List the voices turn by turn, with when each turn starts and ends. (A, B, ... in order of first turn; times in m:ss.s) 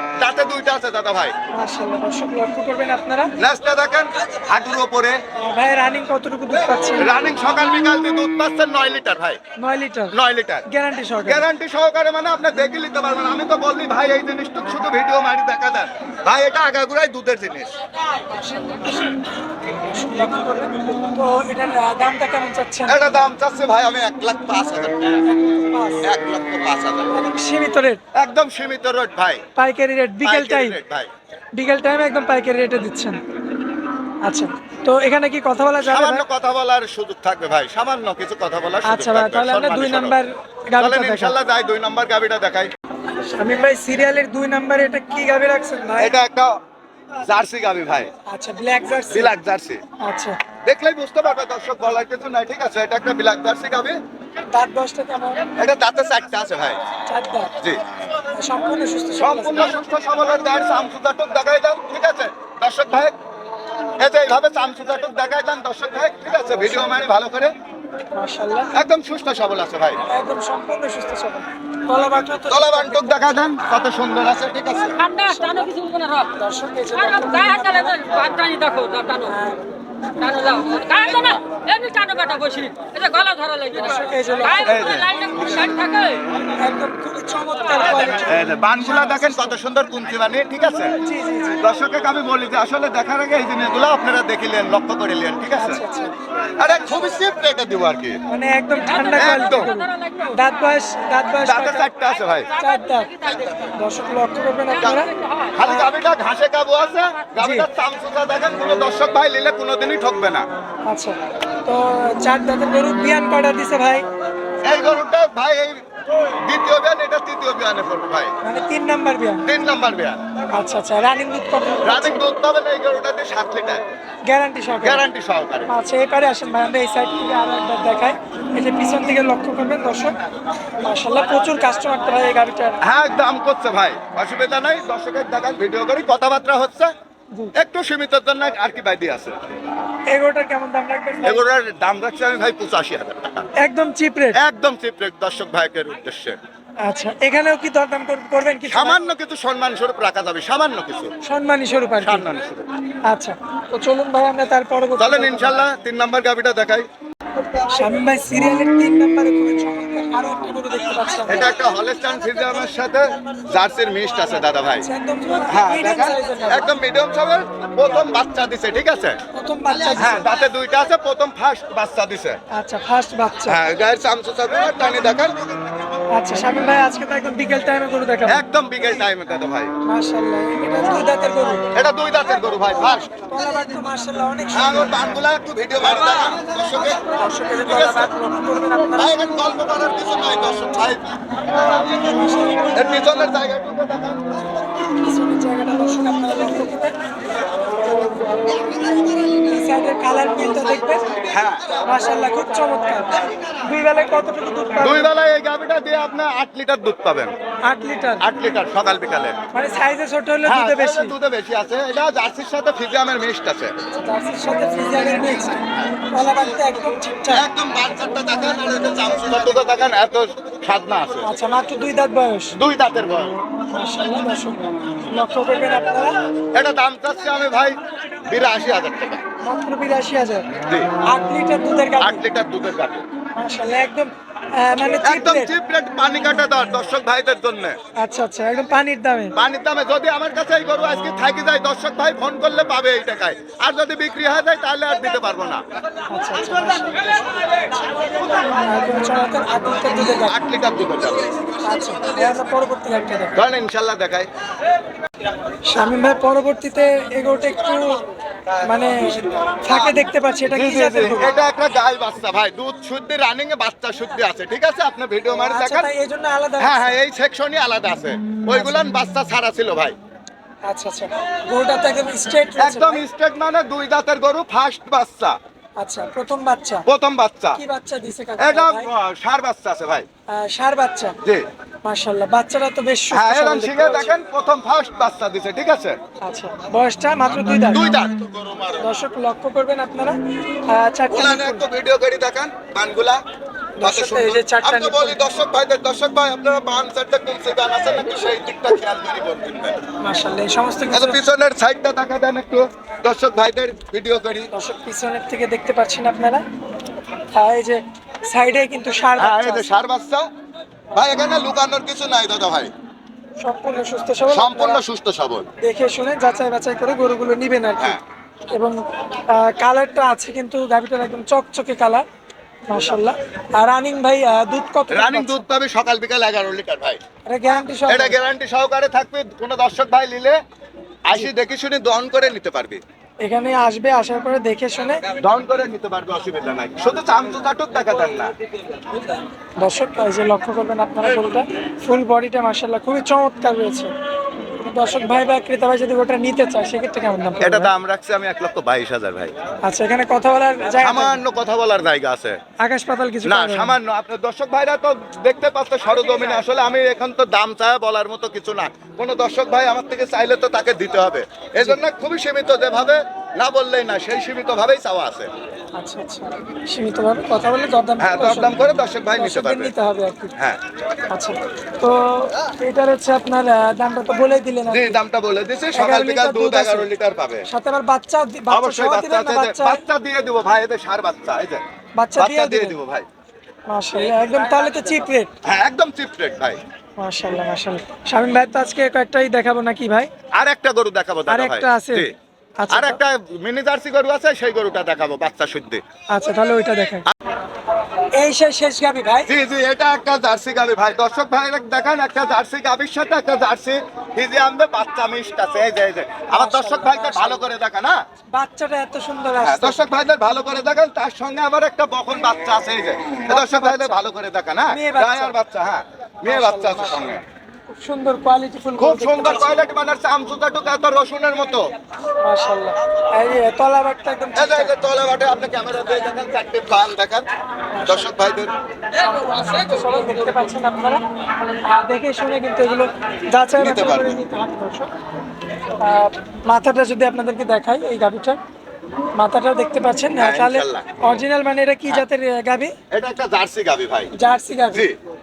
0:00.2-0:01.3 A
0:01.5-0:03.3 B
0:03.4-0:05.2 A
0:05.4-0:07.1 B
0:07.0-0:09.4 A
0:09.6-0:10.1 B
0:10.1-0:10.6 A
0:10.7-0:11.4 B
0:11.2-0:17.7 A
0:18.4-0:23.0 B
0:22.9-0:25.3 A
0:25.7-0:26.1 B
0:26.0-0:27.2 A
0:27.1-0:28.0 B
0:28.2-0:29.4 A
0:29.6-0:30.8 B
0:30.2-0:31.1 A
0:31.5-0:33.2 B
0:34.2-0:36.2 B
0:35.8-0:40.2 A
0:38.8-0:41.3 B
0:40.8-0:42.7 A
0:43.3-0:46.1 B
0:46.0-0:46.6 A
0:47.2-0:48.1 A
0:48.3-0:49.3 B
0:49.1-0:49.8 A
0:50.0-0:50.4 B
0:50.6-0:54.0 A
0:54.5-0:55.5 B
0:55.6-0:56.8 A
0:57.1-0:57.5 B
0:58.3-0:59.7 B
0:59.2-1:03.1 A
1:04.0-1:07.5 A
1:06.6-1:06.9 B
1:08.1-1:08.7 B
1:08.7-1:10.0 A
1:10.0-1:13.4 B
1:12.5-1:15.0 A
1:15.1-1:18.6 B
1:15.8-1:16.1 C
1:18.5-1:19.1 C
1:19.1-1:19.6 B
1:20.2-1:21.4 B
1:20.7-1:23.7 C
1:23.7-1:25.8 B
1:24.6-1:25.7 A
1:25.8-1:26.2 C
1:26.6-1:29.6 B
1:28.1-1:30.9 A
1:31.0-1:31.6 B
1:31.6-1:35.8 A
1:35.6-1:36.1 B
1:36.6-1:38.2 A
1:38.3-1:41.8 B
1:39.0-1:39.7 A
1:41.4-1:42.5 A
1:42.6-1:45.1 B
1:44.8-1:50.5 A
1:47.4-1:47.7 B
1:50.8-1:54.0 B
1:54.6-1:58.3 A
1:58.4-1:59.4 B
1:59.4-2:00.2 A
2:00.5-2:02.2 B
2:01.8-2:03.8 A
2:04.3-2:05.0 B
2:04.8-2:05.7 A
2:05.7-2:10.2 B
2:10.8-2:12.8 B
2:12.8-2:16.9 A
2:17.6-2:19.4 A
2:20.1-2:21.4 B
2:21.2-2:23.4 A
2:23.6-2:24.4 B
2:24.3-2:26.4 A
2:26.8-2:29.0 B
2:28.7-2:31.1 A
2:31.2-2:32.2 B
2:32.0-2:32.6 A
2:33.1-2:35.6 B
2:35.0-2:36.8 A
2:37.5-2:41.5 B
2:41.3-2:44.8 A
2:44.8-2:46.7 B
2:45.5-2:49.2 A
2:49.3-2:50.3 B
2:50.0-2:52.4 A
2:52.5-2:53.6 B
2:53.5-2:55.4 A
2:56.1-2:58.4 B
2:58.3-2:59.7 A
2:59.8-3:01.7 B
3:01.7-3:03.1 A
3:03.2-3:05.1 B
3:04.5-3:08.1 A
3:06.0-3:09.2 B
3:09.0-3:12.0 A
3:11.7-3:13.3 B
3:12.7-3:14.2 A
3:14.8-3:16.9 B
3:19.2-3:21.1 B
3:21.3-3:21.8 A
3:21.8-3:25.1 B
3:24.8-3:27.3 A
3:27.7-3:28.2 B
3:28.2-3:29.3 A
3:29.5-3:31.1 B
3:30.4-3:33.8 A
3:34.0-3:37.5 B
3:35.0-3:36.0 A
3:37.3-3:41.3 A
3:41.2-3:42.6 B
3:42.5-3:43.4 A
3:43.7-3:46.2 B
3:46.5-3:49.2 A
3:49.4-3:50.5 B
3:50.6-3:50.9 A
3:51.1-3:52.2 B
3:52.0-3:53.0 A
3:53.4-3:55.5 B
3:55.0-3:57.8 A
3:58.0-3:59.3 B
3:59.4-4:05.6 A
4:06.1-4:07.8 B
4:08.5-4:10.5 B
4:10.2-4:11.3 A
4:11.6-4:13.4 B
4:13.4-4:14.3 A
4:15.6-4:18.0 B
4:18.6-4:21.3 B
4:20.5-4:25.9 A
4:25.4-4:27.0 B
4:26.6-4:30.0 A
4:30.6-4:33.0 B
4:32.6-4:35.4 A
4:35.8-4:36.8 B
4:36.9-4:37.6 A
4:37.6-4:38.9 B
4:38.4-4:40.0 A
4:40.3-4:41.2 B
4:41.8-4:44.1 B
4:43.1-4:46.0 A
4:46.2-4:47.9 B
4:47.7-4:48.8 A
4:48.8-4:50.2 B
4:50.7-4:51.6 B
4:51.1-4:53.2 A
4:53.8-4:55.2 B
4:53.8-4:59.8 A
5:00.0-5:01.2 B
5:00.9-5:04.5 A
5:04.5-5:06.4 B
5:07.3-5:09.7 B
5:09.2-5:10.2 A
5:10.9-5:12.7 A
5:13.4-5:14.8 B
5:14.3-5:15.5 A
5:15.6-5:18.0 B
5:18.5-5:22.0 B
5:22.7-5:25.4 B
5:24.9-5:27.0 A
5:27.3-5:28.2 B
5:27.9-5:30.4 A
5:31.1-5:32.8 A
5:33.2-5:35.0 B
5:35.2-5:38.3 A
5:39.6-5:43.9 B
5:44.6-5:47.7 B
5:47.4-5:49.3 A
5:49.6-5:51.2 B
5:50.8-5:52.4 A
5:52.6-5:53.8 B
5:53.2-6:05.3 A
6:05.7-6:08.6 B
6:08.0-6:09.7 A
6:09.1-6:10.3 B
6:11.1-6:15.0 B
6:14.7-6:17.4 A
6:15.7-6:16.9 B
6:17.5-6:19.8 B
6:18.5-6:21.6 A
6:22.0-6:22.8 B
6:22.2-6:23.0 A
6:23.7-6:25.3 B
6:25.4-6:26.6 A
6:27.0-6:30.1 B
6:30.4-6:32.1 A
6:31.3-6:32.1 B
6:32.6-6:33.0 B
6:32.7-6:35.8 A
6:36.1-6:37.0 B
6:38.2-6:39.3 B
6:39.3-6:48.0 A
6:46.3-6:47.4 B
6:48.3-6:49.8 B
6:49.4-6:57.2 A
6:53.3-6:54.0 B
6:54.7-6:55.3 B
6:56.2-6:59.6 B
6:58.8-7:01.7 A
7:02.2-7:04.7 B
7:04.4-7:07.3 A
7:07.7-7:08.1 B
7:07.8-7:08.5 A
7:08.9-7:11.0 B
7:11.7-7:14.9 B
7:13.6-7:14.2 A
7:15.8-7:18.4 B
7:19.2-7:22.7 B
7:20.2-7:21.1 A
7:22.9-7:24.1 A
7:24.1-7:24.9 B
7:24.7-7:25.0 A